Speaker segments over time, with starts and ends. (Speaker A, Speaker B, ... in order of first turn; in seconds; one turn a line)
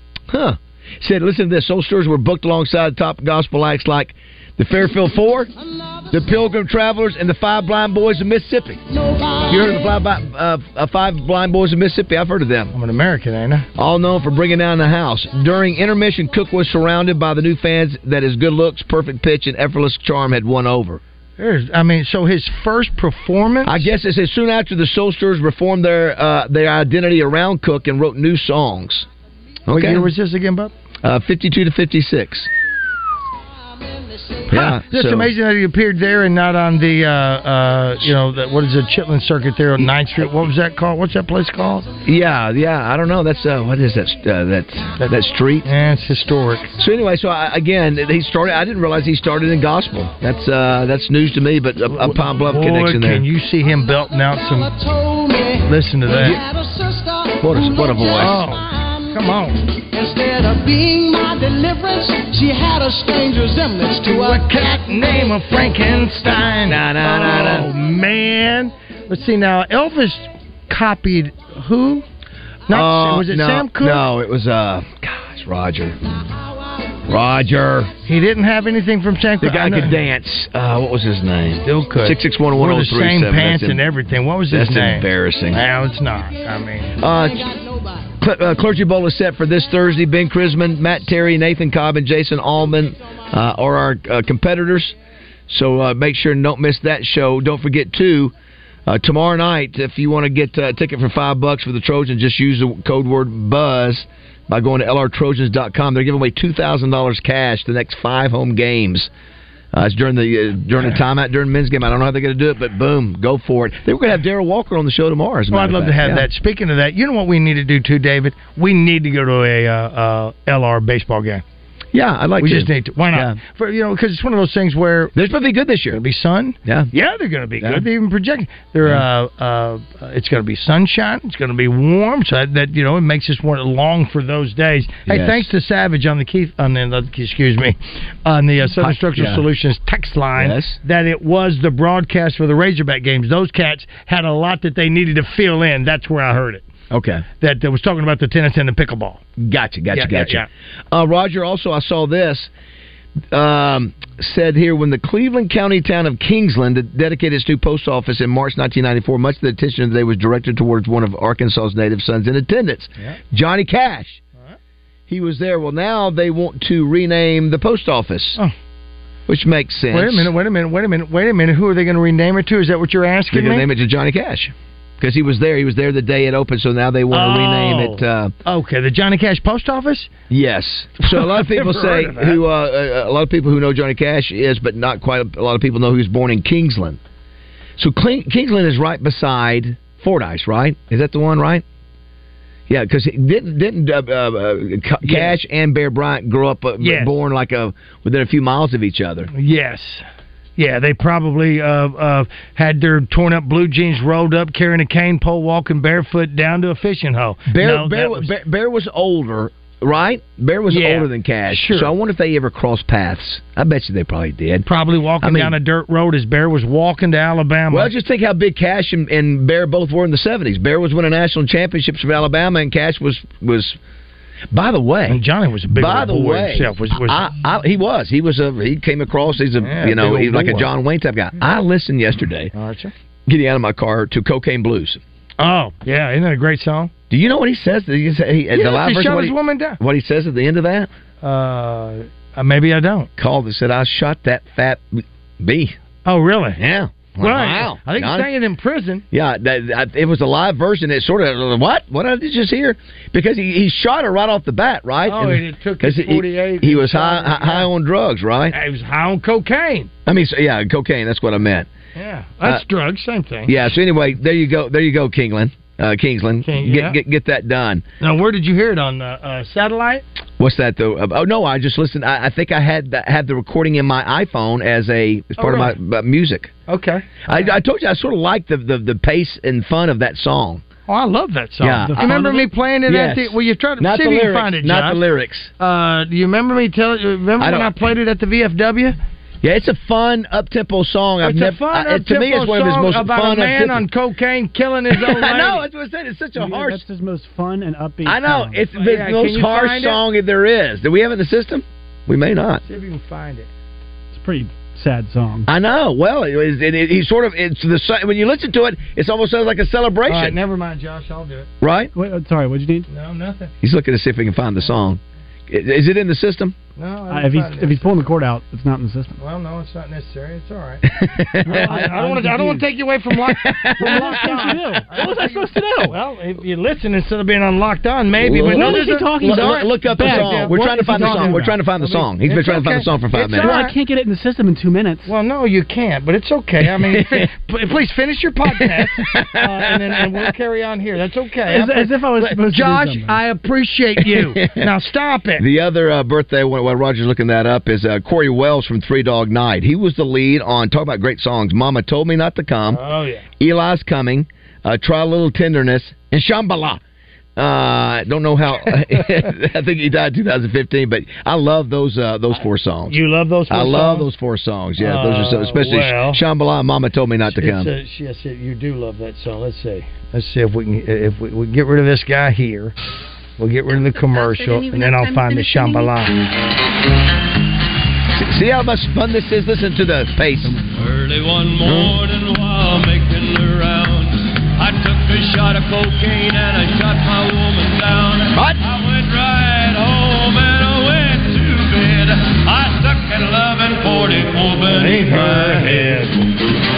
Speaker A: 0.3-5.5
Speaker A: 6.1-8.8
Speaker A: 9.4-12.7
Speaker B: 12.7-13.7
Speaker A: 13.8-21.0
Speaker B: 21.4-23.9
Speaker A: 23.6-29.1
Speaker A: 29.7-30.1
Speaker B: 29.7-30.7
Speaker A: 31.0-32.5
Speaker A: 34.5-35.3
Speaker B: 34.5-41.9
Speaker A: 42.0-45.7
Speaker B: 45.0-46.7
Speaker A: 46.8-53.2
Speaker B: 51.9-54.7
Speaker B: 55.6-56.4
Speaker A: 56.2-56.4
Speaker A: 57.4-58.5
Speaker B: 58.2-59.6
Speaker C: 60.0-64.0
Speaker B: 64.0-72.0
Speaker A: 66.7-67.7
Speaker B: 72.7-74.0
Speaker A: 72.7-76.0
Speaker A: 77.1-77.9
Speaker B: 78.1-80.0
Speaker A: 79.4-83.8
Speaker B: 81.7-87.0
Speaker A: 84.5-85.6
Speaker A: 87.0-87.5
Speaker A: 88.2-95.0
Speaker A: 95.5-98.3
Speaker A: 98.9-109.1
Speaker A: 109.7-116.3
Speaker B: 115.5-121.4
Speaker A: 121.9-123.4
Speaker B: 122.4-125.1
Speaker A: 125.2-126.0
Speaker B: 125.9-146.7
Speaker A: 126.7-126.9
Speaker A: 127.6-127.9
Speaker A: 135.1-135.5
Speaker A: 138.8-139.4
Speaker A: 140.4-140.8
Speaker A: 146.9-147.2
Speaker B: 147.4-149.2
Speaker A: 149.4-152.5
Speaker B: 149.9-150.5
Speaker A: 153.3-164.2
Speaker A: 165.1-168.4
Speaker A: 169.3-170.3
Speaker B: 169.9-173.7
Speaker A: 173.3-178.3
Speaker B: 177.1-180.1
Speaker A: 180.3-187.0
Speaker B: 181.0-182.4
Speaker A: 187.8-191.6
Speaker A: 192.7-199.3
Speaker B: 195.0-195.3
Speaker B: 196.8-197.2
Speaker B: 199.3-200.0
Speaker B: 200.6-208.3
Speaker A: 207.5-214.7
Speaker B: 210.7-211.9
Speaker B: 214.7-217.9
Speaker A: 215.2-215.6
Speaker A: 217.7-223.8
Speaker A: 224.5-225.2
Speaker B: 225.1-227.2
Speaker A: 225.8-232.5
Speaker B: 229.6-230.7
Speaker B: 232.5-232.9
Speaker A: 233.3-235.0
Speaker B: 235.4-236.9
Speaker A: 237.1-240.9
Speaker B: 238.5-239.8
Speaker B: 241.2-243.1
Speaker A: 243.2-245.8
Speaker B: 246.1-246.6
Speaker A: 246.6-248.3
Speaker B: 247.2-249.0
Speaker A: 249.1-258.6
Speaker B: 255.1-257.7
Speaker B: 258.5-259.9
Speaker A: 260.1-261.7
Speaker B: 262.0-263.5
Speaker A: 263.5-267.9
Speaker B: 266.4-267.0
Speaker B: 268.0-270.0
Speaker A: 270.4-276.5
Speaker B: 275.4-275.7
Speaker B: 276.7-277.5
Speaker A: 277.2-280.6
Speaker B: 280.9-285.0
Speaker A: 281.6-282.2
Speaker D: 281.8-282.6
Speaker A: 282.9-285.5
Speaker B: 285.6-289.0
Speaker A: 287.4-287.7
Speaker A: 289.4-293.8
Speaker B: 291.2-295.6
Speaker A: 294.9-296.8
Speaker D: 296.4-298.7
Speaker A: 298.1-302.6
Speaker B: 298.7-300.0
Speaker B: 302.6-303.5
Speaker D: 304.1-305.5
Speaker A: 305.5-310.4
Speaker B: 310.1-311.5
Speaker A: 311.6-311.9
Speaker D: 311.9-312.9
Speaker B: 312.9-313.5
Speaker A: 313.6-316.6
Speaker B: 316.8-318.1
Speaker D: 317.1-319.2
Speaker B: 319.2-320.8
Speaker A: 320.9-321.9
Speaker D: 321.5-322.7
Speaker B: 321.5-333.7
Speaker A: 323.3-324.2
Speaker D: 323.8-326.0
Speaker A: 328.2-333.6
Speaker D: 328.3-331.6
Speaker D: 333.3-335.1
Speaker B: 335.1-345.4
Speaker A: 336.7-337.3
Speaker A: 338.6-340.0
Speaker D: 341.5-343.2
Speaker A: 344.0-344.7
Speaker A: 345.4-352.8
Speaker B: 352.7-353.2
Speaker A: 353.4-356.8
Speaker A: 357.4-363.0
Speaker B: 362.9-364.1
Speaker A: 363.5-367.7
Speaker B: 364.8-366.2
Speaker B: 367.3-372.7
Speaker B: 373.4-376.2
Speaker A: 378.1-380.6
Speaker E: 380.7-396.0
Speaker A: 381.6-381.9
Speaker A: 388.3-388.6
Speaker B: 394.6-396.2